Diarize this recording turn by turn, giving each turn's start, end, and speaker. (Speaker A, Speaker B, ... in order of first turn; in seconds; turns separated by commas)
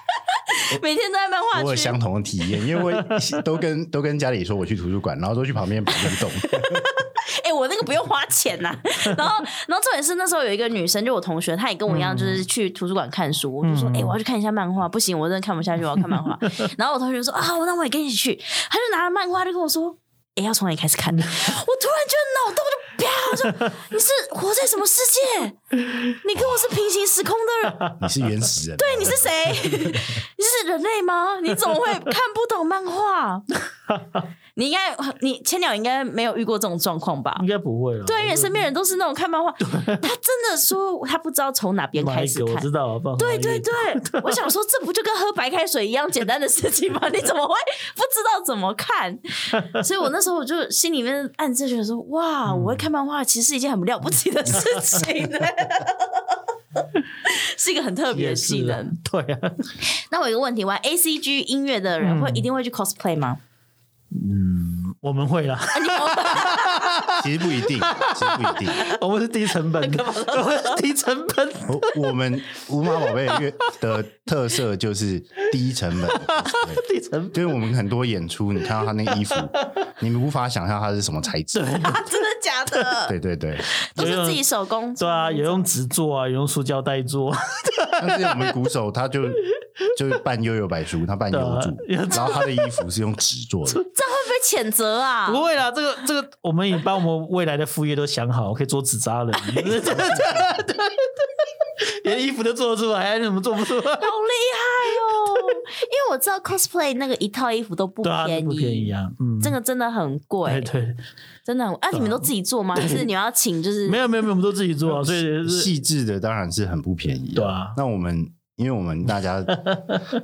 Speaker A: 0.4-2.0, Speaker B: 1.5-6.8, Speaker A: 6.0-25.6, Speaker C: 11.9-12.4, Speaker C: 13.6-14.2, Speaker A: 26.1-27.9, Speaker B: 28.0-29.7, Speaker A: 28.8-33.5, Speaker A: 34.5-37.5, Speaker C: 37.4-38.7, Speaker A: 38.0-56.3, Speaker C: 39.6-40.0, Speaker C: 42.0-44.4, Speaker C: 52.5-52.9, Speaker C: 54.6-55.0, Speaker A: 57.2-59.0, Speaker C: 58.1-59.7, Speaker A: 60.1-63.4, Speaker C: 62.0-62.5, Speaker C: 64.1-72.0, Speaker A: 65.7-67.0, Speaker B: 67.2-68.8, Speaker A: 69.7-70.8, Speaker B: 71.7-81.8, Speaker C: 72.9-73.7, Speaker C: 76.0-77.5, Speaker C: 78.8-79.4, Speaker C: 81.5-82.2, Speaker A: 81.8-83.1, Speaker B: 83.1-83.6, Speaker C: 83.9-84.4, Speaker A: 84.0-85.7, Speaker C: 85.0-88.5, Speaker B: 88.0-89.4, Speaker B: 89.9-93.8, Speaker C: 91.3-92.7, Speaker A: 92.1-92.4, Speaker A: 93.9-95.4, Speaker C: 95.3-104.1, Speaker B: 99.9-100.3, Speaker A: 104.0-110.7, Speaker C: 108.0-109.6, Speaker C: 110.5-111.0, Speaker A: 111.5-114.0, Speaker C: 111.9-113.1, Speaker C: 113.9-115.7, Speaker B: 115.4-119.7, Speaker C: 117.3-117.8, Speaker C: 119.5-120.0